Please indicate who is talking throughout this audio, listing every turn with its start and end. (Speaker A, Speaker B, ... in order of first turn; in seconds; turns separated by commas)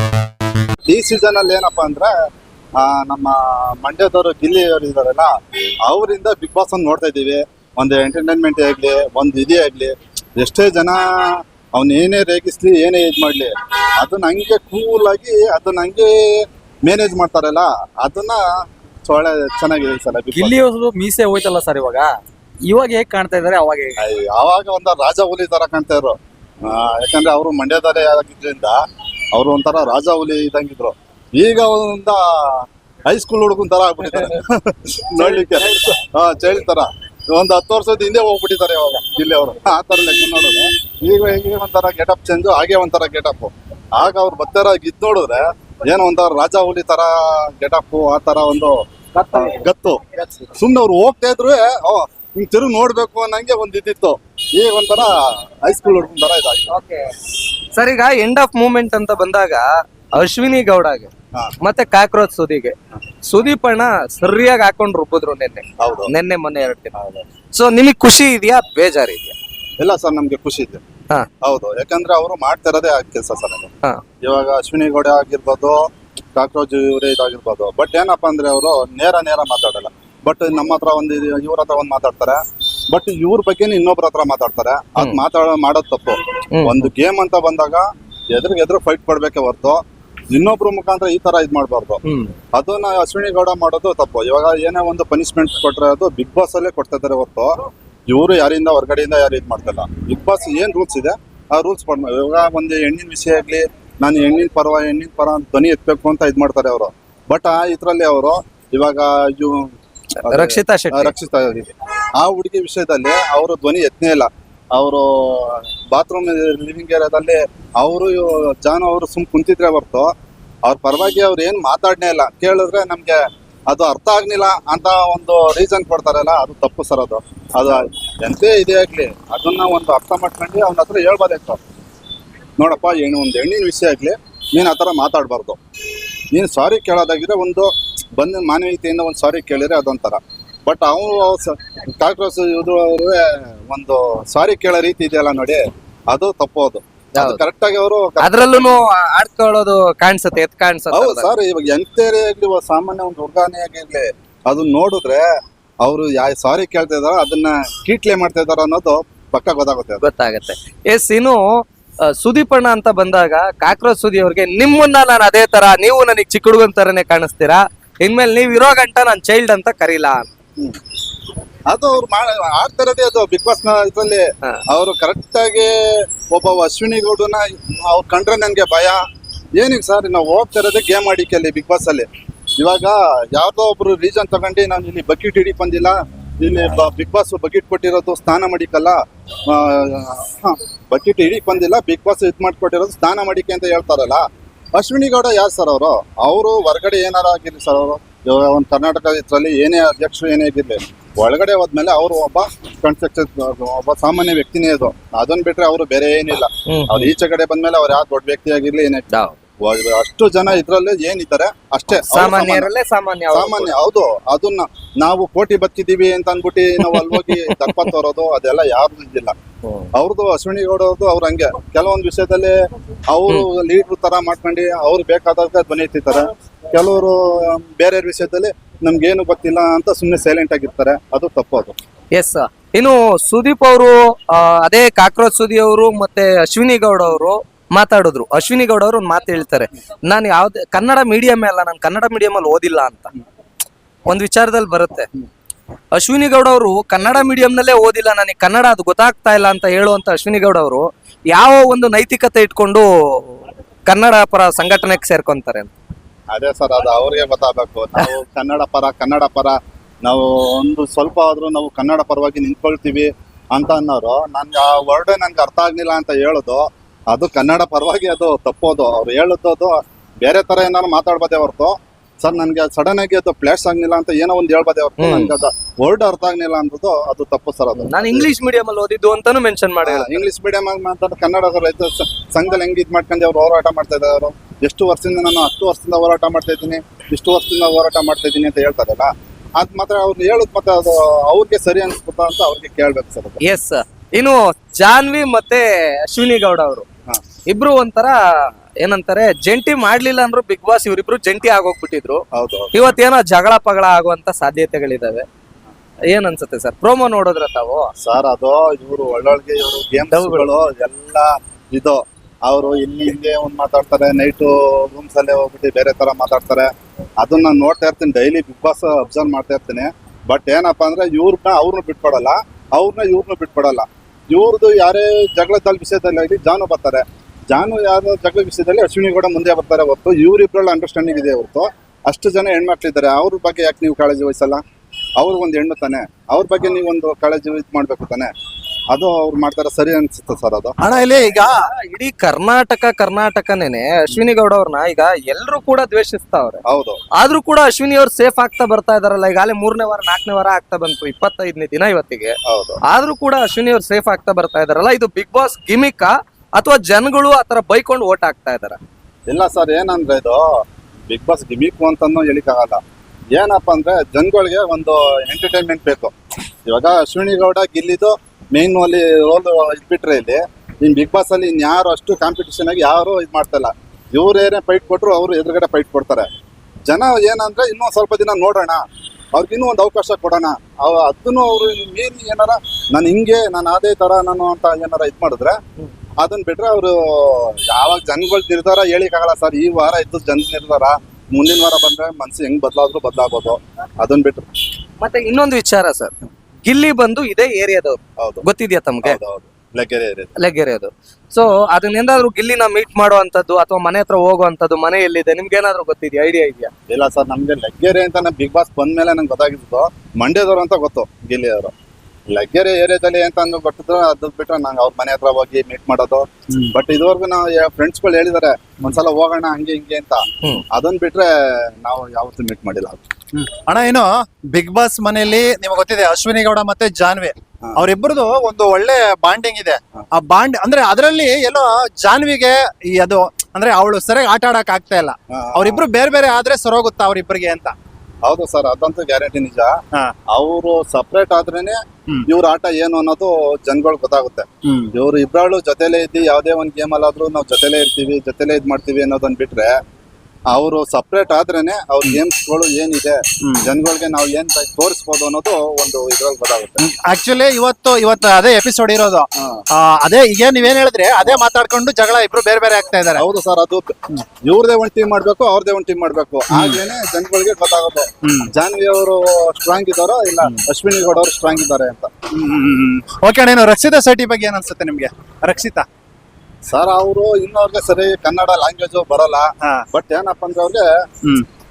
Speaker A: 0.9-2.1, Speaker A: 2.8-5.3, Speaker A: 5.9-18.5, Speaker A: 19.0-20.6, Speaker B: 20.3-22.1, Speaker B: 22.7-24.0, Speaker A: 24.0-28.8, Speaker A: 29.3-48.8, Speaker B: 35.2-35.9, Speaker B: 49.1-49.7, Speaker A: 49.3-50.0, Speaker B: 50.2-50.5, Speaker A: 50.5-56.7, Speaker B: 56.7-66.9, Speaker A: 65.8-66.1, Speaker A: 66.9-67.3, Speaker B: 67.5-69.4, Speaker A: 69.8-70.8, Speaker A: 71.4-73.7, Speaker A: 74.2-75.8, Speaker A: 76.4-92.0, Speaker B: 86.5-86.9, Speaker B: 92.1-92.3, Speaker A: 92.5-97.6, Speaker A: 98.1-120.1, Speaker B: 110.2-111.1, Speaker A: 120.7-131.6, Speaker A: 132.6-135.6, Speaker A: 136.3-148.8, Speaker B: 147.2-147.4, Speaker B: 148.2-151.3, Speaker A: 150.9-155.3, Speaker A: 155.8-160.0, Speaker B: 160.0-161.4, Speaker B: 162.0-170.3, Speaker A: 171.7-179.0, Speaker A: 179.6-182.1, Speaker A: 182.6-194.2, Speaker A: 194.8-209.1, Speaker B: 206.7-207.1, Speaker B: 209.1-209.4, Speaker A: 209.6-212.7, Speaker B: 211.9-213.7, Speaker A: 213.3-219.3, Speaker B: 216.8-217.9, Speaker B: 219.7-219.9, Speaker A: 219.9-222.6, Speaker A: 223.1-231.8, Speaker B: 232.1-243.1, Speaker B: 244.1-245.1, Speaker B: 245.9-255.7, Speaker A: 256.3-278.3, Speaker B: 275.0-275.3, Speaker B: 277.8-280.2, Speaker A: 279.8-293.4, Speaker B: 293.4-296.9, Speaker B: 297.5-298.2, Speaker B: 298.8-302.2, Speaker A: 302.3-302.7, Speaker B: 302.7-305.3, Speaker B: 306.1-307.9, Speaker A: 308.0-334.6, Speaker B: 310.1-310.5, Speaker A: 335.2-338.3, Speaker A: 338.9-340.8, Speaker C: 340.8-341.6, Speaker B: 341.3-346.6, Speaker A: 346.7-347.0, Speaker B: 347.2-358.8, Speaker A: 352.5-352.8, Speaker A: 359.3-360.4, Speaker A: 361.1-362.8, Speaker A: 363.3-366.1, Speaker A: 366.7-376.3, Speaker A: 376.9-378.8, Speaker A: 379.3-385.6, Speaker A: 386.2-394.5, Speaker B: 395.0-396.1, Speaker B: 396.6-399.2, Speaker A: 398.2-398.4, Speaker A: 399.0-400.4, Speaker B: 400.4-406.7, Speaker A: 406.9-411.7, Speaker A: 412.3-423.0, Speaker C: 423.4-437.7, Speaker A: 435.3-435.8, Speaker A: 438.2-439.8, Speaker A: 440.3-449.8, Speaker C: 444.7-444.9, Speaker A: 450.5-456.8, Speaker C: 453.4-453.7, Speaker C: 456.8-463.2, Speaker A: 459.4-459.6, Speaker A: 463.2-472.1, Speaker C: 466.5-466.8, Speaker C: 468.2-468.5, Speaker C: 472.3-475.9, Speaker A: 476.7-480.9